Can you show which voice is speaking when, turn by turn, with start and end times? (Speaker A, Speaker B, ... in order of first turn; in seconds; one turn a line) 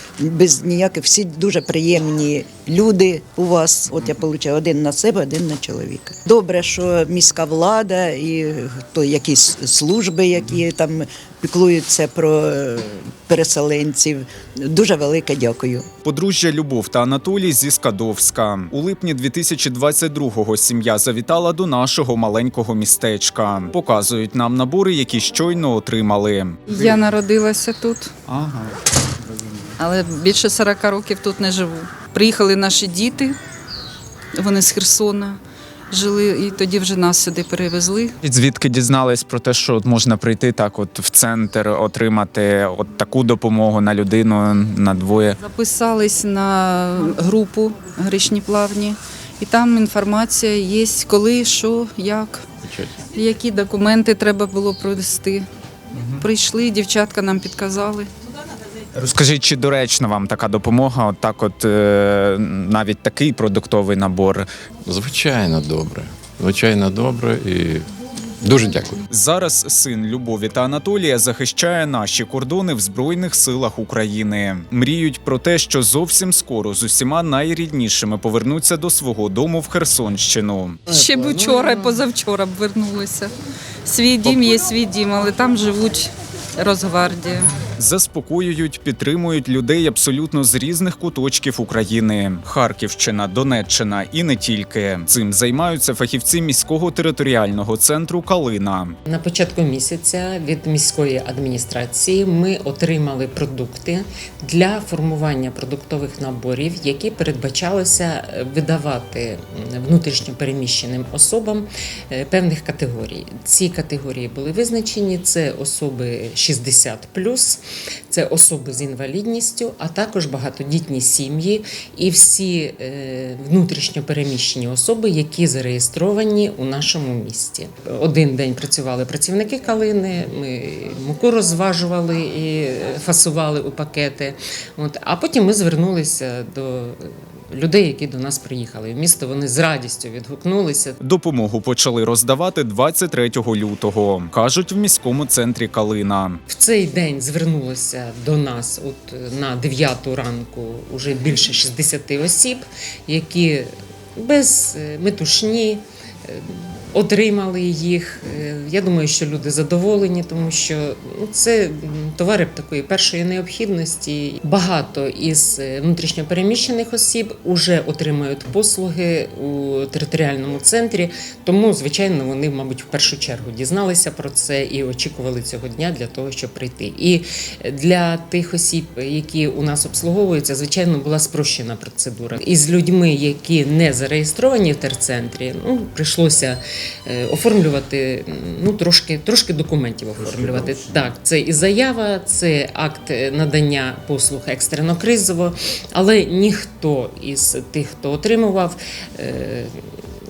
Speaker A: 0.2-15.8
Speaker B: 16.0-26.6
Speaker C: 26.7-28.1
Speaker B: 28.3-28.7
Speaker C: 29.8-33.4
Speaker C: 34.3-35.4
Speaker C: 35.9-38.1
Speaker B: 38.2-45.4
Speaker C: 45.4-52.5
Speaker D: 52.6-52.9
Speaker C: 53.0-55.5
Speaker C: 56.1-58.1
Speaker B: 58.9-64.5
Speaker D: 64.8-67.9
Speaker D: 68.4-69.0
Speaker B: 69.1-80.8
Speaker C: 80.9-83.3
Speaker C: 83.8-87.5
Speaker B: 87.8-99.0
Speaker E: 99.0-141.0
Speaker B: 141.0-146.4
Speaker E: 146.5-200.0